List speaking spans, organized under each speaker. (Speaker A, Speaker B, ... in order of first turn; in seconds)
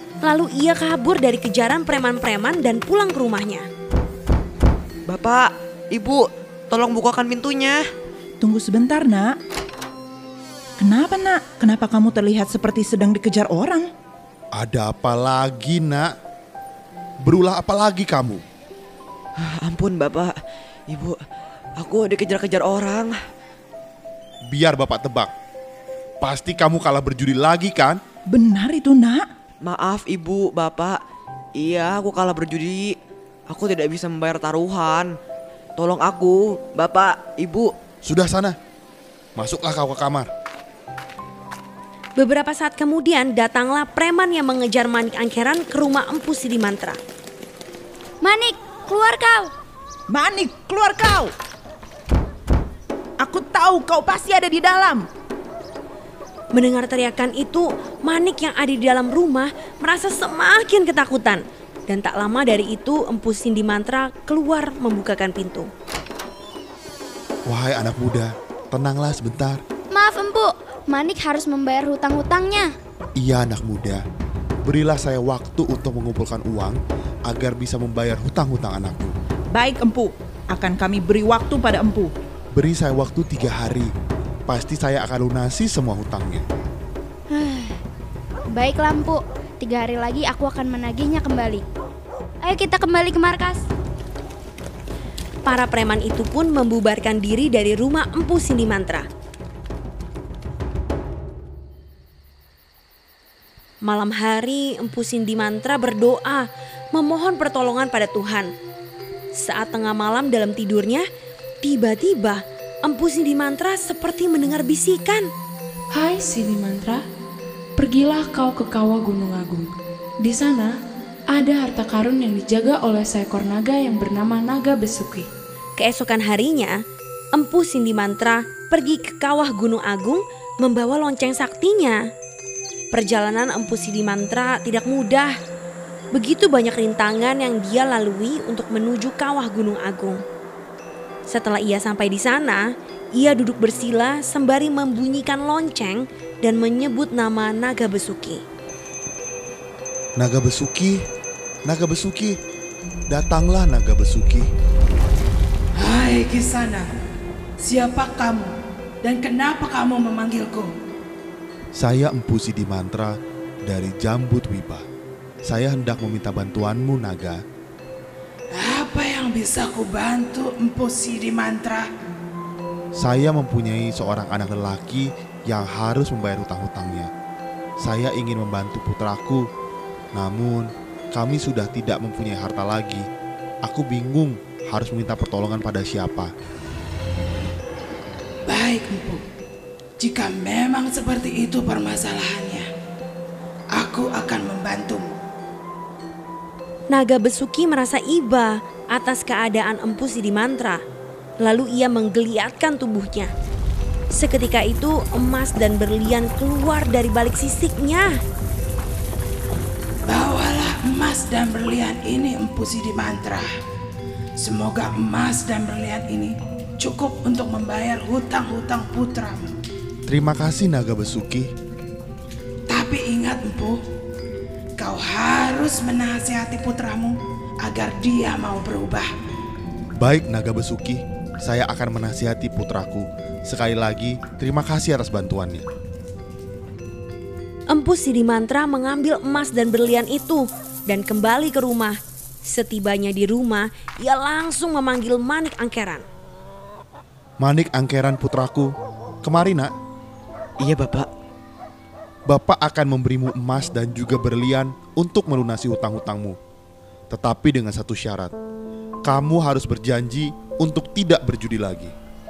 Speaker A: 0.2-3.6, 42.2-47.0, 56.5-65.7, 95.4-99.0, 103.8-108.5, 109.3-111.0, 111.6-115.3, 125.8-126.8, 127.3-132.0, 132.9-135.3, 136.1-140.2, 141.3-142.6, 143.2-148.4, 196.9-200.8, 201.4-203.3, 204.1-208.1, 237.7-246.0
Speaker B: 5.1-7.8, 19.6-20.3, 20.9-21.2, 21.8-23.1, 29.6-31.0, 31.6-32.9, 33.5-35.1, 35.8-37.7, 250.6-251.1
Speaker C: 8.4-9.3, 10.8-13.8, 28.3-29.2, 50.1-51.3, 53.2-55.1, 79.5-82.1
Speaker D: 14.5-16.1, 17.2-18.4, 24.5-25.3, 26.2-28.0, 38.0-38.5, 39.4-40.3, 67.5-69.6, 73.2-74.0, 74.6-76.8, 77.3-79.1, 82.5-83.9, 84.5-86.4, 150.2-151.0, 151.7-152.4, 153.1-154.5, 161.8-163.1, 163.7-164.8, 165.4-167.4, 173.0-177.1, 177.8-179.4, 180.1-183.0, 183.6-186.3, 220.1-221.5, 230.0-235.6, 247.4-249.7, 252.3-256.4, 257.1-258.3, 259.1-261.9
Speaker E: 48.2-49.5, 69.9-72.7, 87.3-87.8, 88.5-91.7, 92.4-93.7
Speaker F: 115.9-117.0, 117.8-119.7, 120.2-120.7, 121.3-125.3
Speaker G: 155.8-156.9, 157.6-158.5, 159.0-160.7, 168.5-171.9, 188.5-189.2, 190.0-192.7, 193.7-195.1, 210.1-213.5, 214.4-219.5, 222.7-223.8, 224.8-229.1